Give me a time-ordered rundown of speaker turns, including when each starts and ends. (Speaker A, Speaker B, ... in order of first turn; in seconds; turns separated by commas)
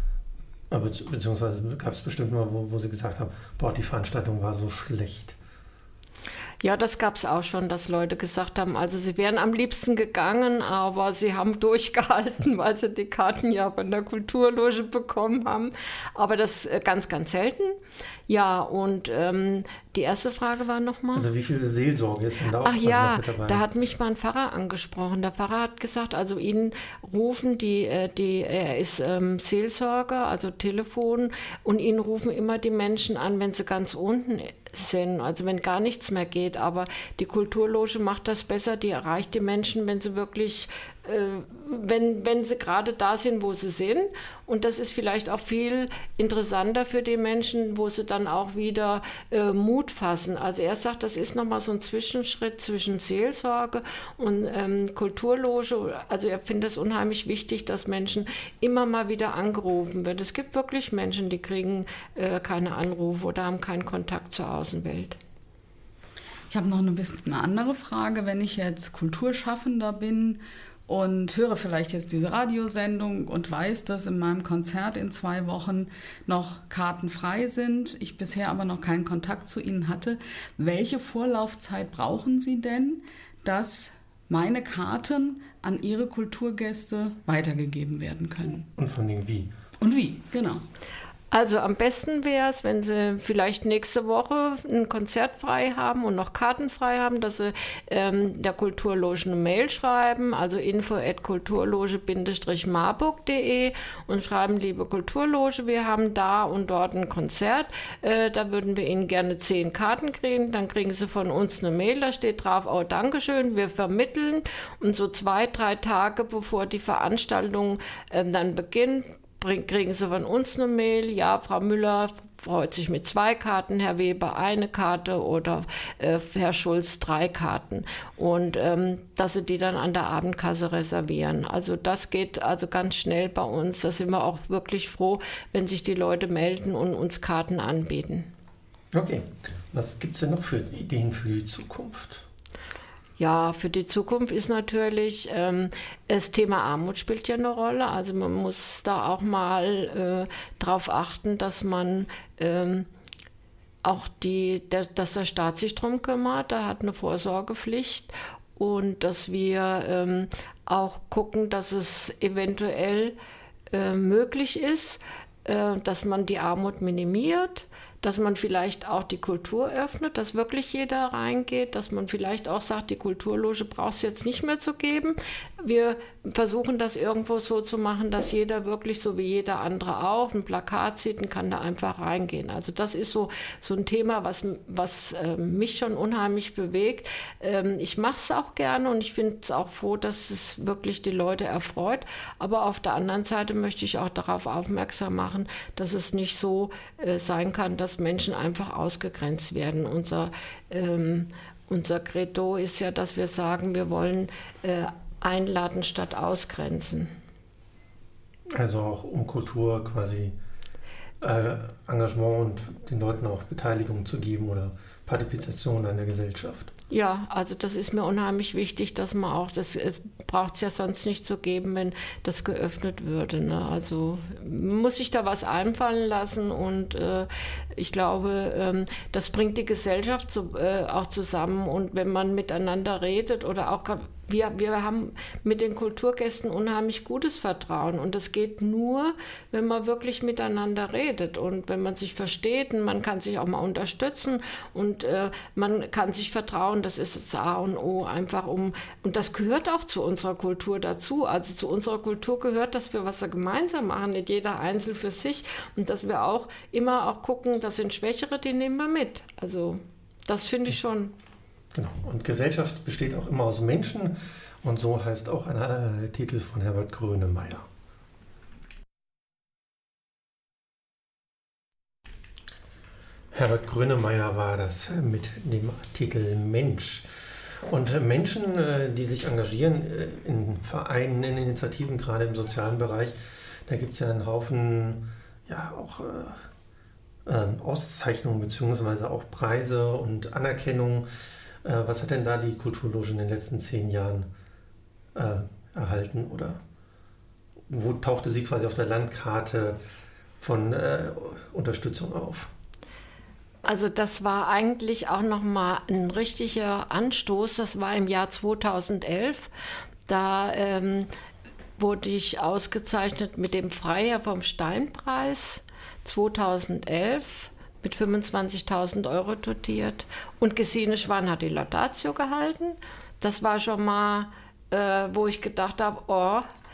Speaker A: 0.7-5.4, Speaker B: 6.6-21.2, Speaker A: 21.1-23.6, Speaker B: 22.6-65.2, Speaker C: 66.5-88.7, Speaker A: 88.8-89.5, Speaker C: 89.8-90.6, Speaker B: 91.3-138.3, Speaker A: 138.9-142.3, Speaker B: 143.2-152.9, Speaker B: 153.8-163.2, Speaker B: 163.7-207.1, Speaker A: 208.5-210.3, Speaker A: 211.2-216.7, Speaker B: 216.9-261.1, Speaker A: 261.7-267.7, Speaker A: 273.3-277.1, Speaker A: 277.7-283.2, Speaker A: 283.7-286.4, Speaker A: 287.3-291.1, Speaker A: 291.6-294.3, Speaker A: 295.1-296.6, Speaker A: 297.7-299.8, Speaker A: 300.4-302.5, Speaker B: 303.6-309.5, Speaker B: 310.1-311.1, Speaker B: 311.8-326.5